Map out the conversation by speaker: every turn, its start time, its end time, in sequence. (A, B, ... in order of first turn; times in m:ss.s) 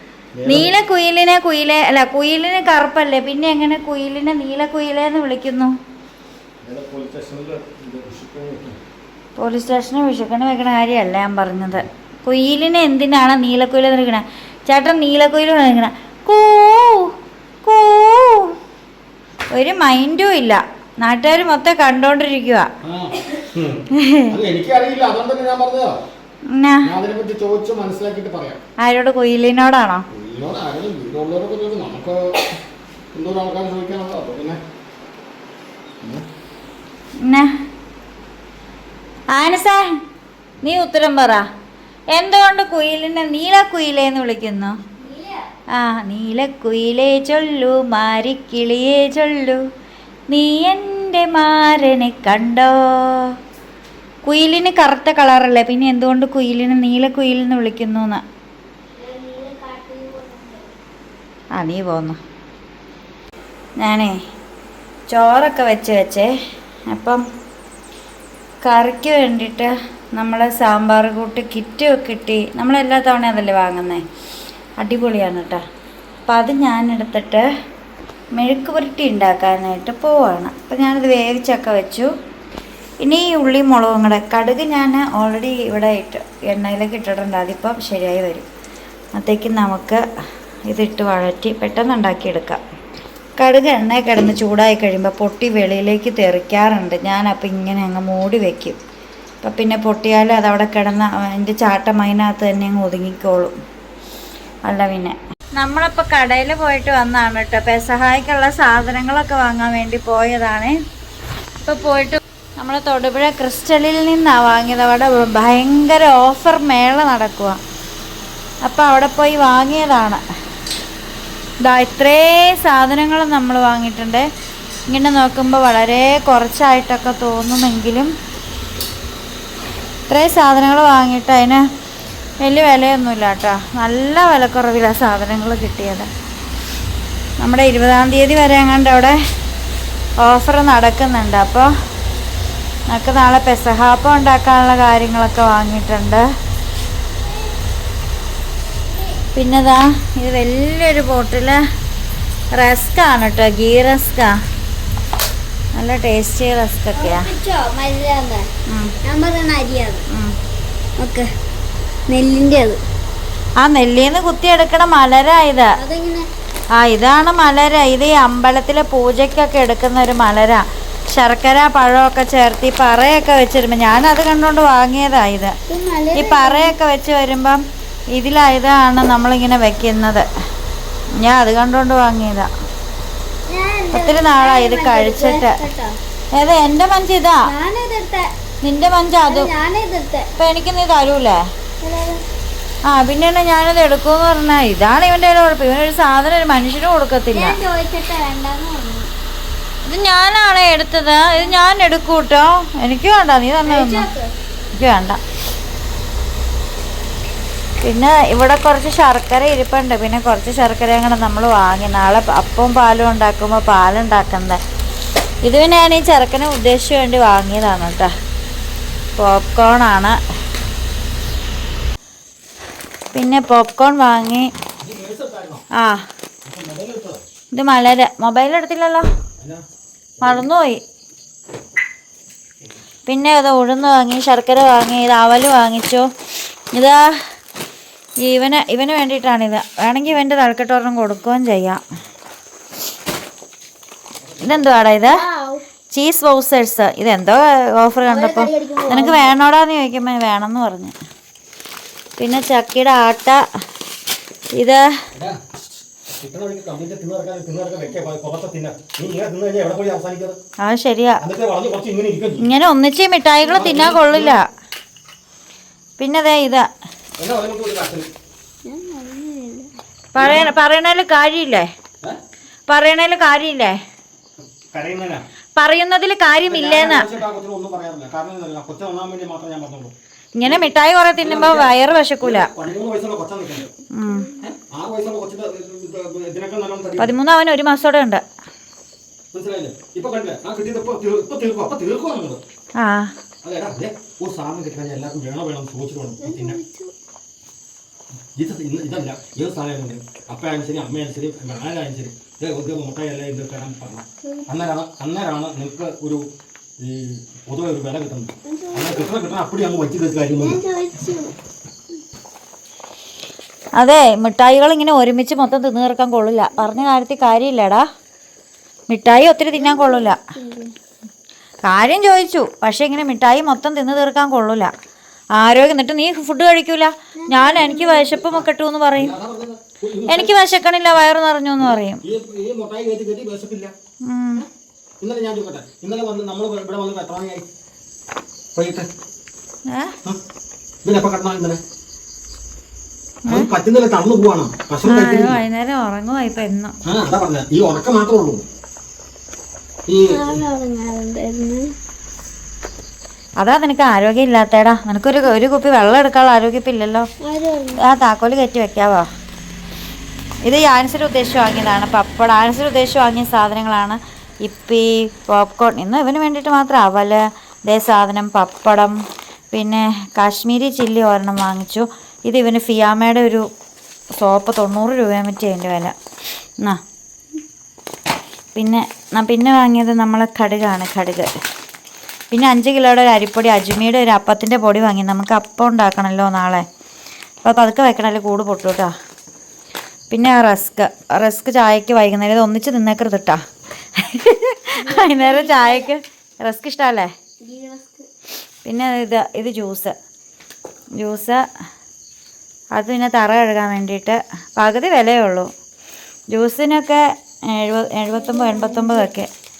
0:00.4-0:00.7 A
0:00.5-0:05.7 B
0:06.6-0:08.8 A
0:09.4-0:17.1 B
0:17.6-0:18.6 B
0:19.5-0:22.7 B
0:22.8-0:26.0 A
0:23.9-0:24.3 B
0:26.5-0:26.9 B
0:26.8-0:28.6 A
0:28.8-0:30.0 B
0:30.1-0:32.4 A
0:33.1-0:34.6 A
0:37.2-0:37.5 B
0:39.3-0:40.0 B
0:40.6-0:41.4 B
0:42.1-0:44.8 B
0:45.0-0:45.5 C
0:45.7-0:49.6 B
0:50.3-0:53.3 B
0:54.3-0:58.2 B
0:59.0-1:00.7 C
1:01.6-1:02.2 B
1:03.8-1:04.2 B
1:05.1-1:06.3 B
1:06.9-1:07.2 B
1:08.6-1:14.0 B
1:14.8-1:15.6 B
1:16.3-1:17.5 B
1:18.4-1:22.1 B
1:23.0-1:28.5 B
1:29.2-1:30.0 B
1:30.7-1:32.6 B
1:33.4-1:38.8 B
1:39.4-1:43.6 B
1:44.7-1:50.8 B
1:51.6-1:57.6 B
1:58.7-2:00.2 B
2:01.6-2:04.3 B
2:04.9-2:08.1 B
2:10.1-2:11.6 B
2:12.4-2:16.1 B
2:17.4-2:19.2 B
2:20.2-2:21.7 B
2:22.9-2:26.3 B
2:29.3-2:31.6 B
2:32.5-2:34.4 B
2:35.8-2:37.3 B
2:37.0-2:38.5 C
2:38.7-2:39.0 B
2:39.0-2:40.0 C
2:41.0-2:41.3 C
2:42.1-2:42.8 C
2:43.6-2:45.8 B
2:45.8-2:46.3 C
2:46.8-2:55.5 B
2:55.7-2:56.8 C
2:56.1-2:57.6 B
2:58.1-3:00.3 B
3:01.2-3:02.5 B
3:03.5-3:06.0 C
3:03.9-3:05.6 B
3:06.4-3:07.5 B
3:07.4-3:08.3 C
3:08.6-3:09.5 B
3:09.3-3:10.3 C
3:10.4-3:11.4 B
3:11.8-3:12.2 C
3:12.9-3:17.6 B
3:17.3-3:19.1 C
3:19.9-3:24.1 B
3:23.6-3:24.3 C
3:24.8-3:25.2 B
3:27.8-3:34.6 B
3:35.4-3:38.1 B
3:39.2-3:40.2 B
3:43.1-3:44.5 B
3:44.8-3:45.6 A
3:45.8-3:46.1 B
3:46.4-3:47.2 A
3:47.6-3:49.1 B
3:49.4-3:49.6 A
3:50.2-3:50.8 B
3:53.1-3:56.1 B
3:56.7-3:57.3 B
3:58.2-4:01.8 B
4:04.2-4:04.7 A
4:04.4-4:05.2 B
4:05.0-4:05.6 C
4:05.9-4:11.0 B
4:08.0-4:09.4 C
4:12.2-4:13.4 B
4:14.6-4:14.9 B
4:15.2-4:20.4 A
4:20.6-4:21.2 B
4:21.2-4:22.5 A
4:22.4-4:24.5 B
4:23.4-4:24.4 A
4:26.0-4:26.7 B
4:27.2-4:28.1 A
4:28.6-4:29.7 C
4:30.1-4:31.7 B
4:30.2-4:30.5 A
4:32.7-4:33.8 B
4:34.7-4:35.2 A
4:35.6-4:37.1 B
4:36.4-4:43.7 A
4:40.4-4:42.5 B
4:43.9-4:44.3 B
4:44.4-4:47.2 A
4:47.0-4:48.2 B
4:49.3-4:52.4 A
4:52.8-4:53.1 B
4:53.4-4:56.6 A
4:56.2-4:56.9 C
4:58.4-5:06.2 A
5:04.2-5:04.5 C
5:06.8-5:10.6 A
5:08.4-5:09.2 C
5:10.4-5:11.3 C
5:13.8-5:17.8 B
5:18.9-5:20.2 B
5:19.6-5:20.7 C
5:21.6-5:24.7 B
5:25.4-5:29.2 B
5:27.2-5:28.2 C
5:28.2-5:30.4 A
5:30.1-5:32.0 B
5:31.6-5:33.7 A
5:34.1-5:34.4 B
5:35.0-5:37.5 A
5:38.6-5:38.9 A
5:39.7-5:40.0 B
5:40.8-5:41.6 A
5:43.3-5:45.4 A
5:44.8-5:46.8 B
5:46.9-5:48.4 A
5:49.9-5:50.4 A
5:50.1-5:51.7 C
5:53.4-5:57.1 B
5:57.2-5:57.8 C
5:57.8-5:59.1 B
6:00.4-6:09.0 B
6:09.5-6:13.5 B
6:14.2-6:15.9 B
6:18.6-6:21.3 B
6:22.3-6:26.7 B
6:27.4-6:28.9 B
6:30.1-6:33.4 B
6:33.9-6:37.1 B
6:34.8-6:35.9 C
6:37.4-6:38.1 C
6:38.6-6:39.9 B
6:41.0-6:41.4 B
6:42.8-6:45.5 B
6:46.3-6:49.3 B
6:48.2-6:49.1 C